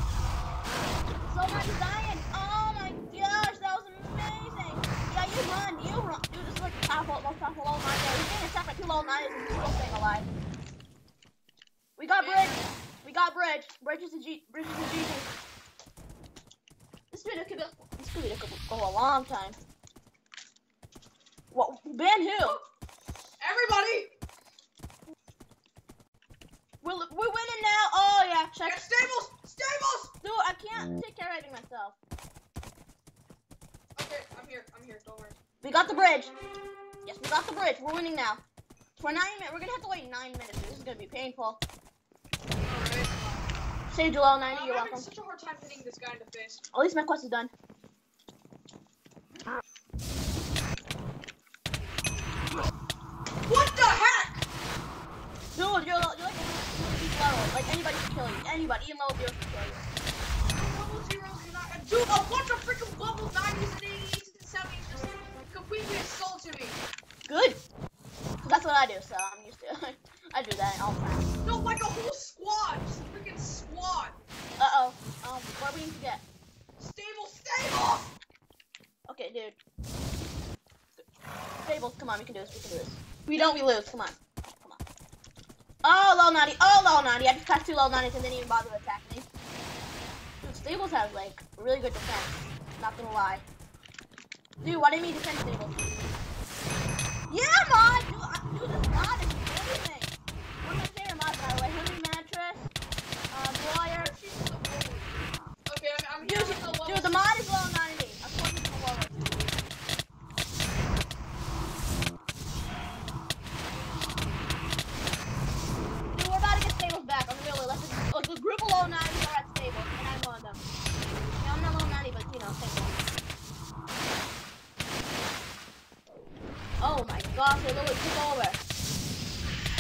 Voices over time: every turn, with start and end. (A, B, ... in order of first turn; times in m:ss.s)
0:01.3-0:10.3 A
0:12.0-0:15.3 A
0:12.2-0:12.6 B
0:17.1-0:19.6 A
0:21.5-0:22.6 A
0:23.4-0:24.1 B
0:26.8-0:28.8 A
0:28.6-0:30.1 B
0:30.2-0:32.0 A
0:34.0-0:35.4 B
0:35.6-0:36.3 A
0:37.0-0:38.4 A
0:39.0-0:41.6 A
0:42.6-0:43.6 B
0:43.9-0:45.1 A
0:44.4-0:46.6 B
0:46.7-0:47.5 A
0:53.5-0:54.4 B
0:55.5-0:59.9 A
1:00.5-1:06.8 B
1:07.3-1:07.6 A
1:08.4-1:11.3 A
1:11.4-1:14.2 B
1:14.6-1:16.2 A
1:16.8-1:18.1 B
1:19.1-1:19.6 A
1:21.6-1:24.8 A
1:25.8-1:29.3 A
1:30.4-1:33.4 A
1:34.6-1:35.8 A
1:37.3-1:42.7 A
1:43.3-1:44.1 A
1:43.9-1:47.2 B
1:46.2-1:49.5 A
1:56.1-2:00.6 A
2:01.4-2:03.0 A
2:06.8-2:08.6 A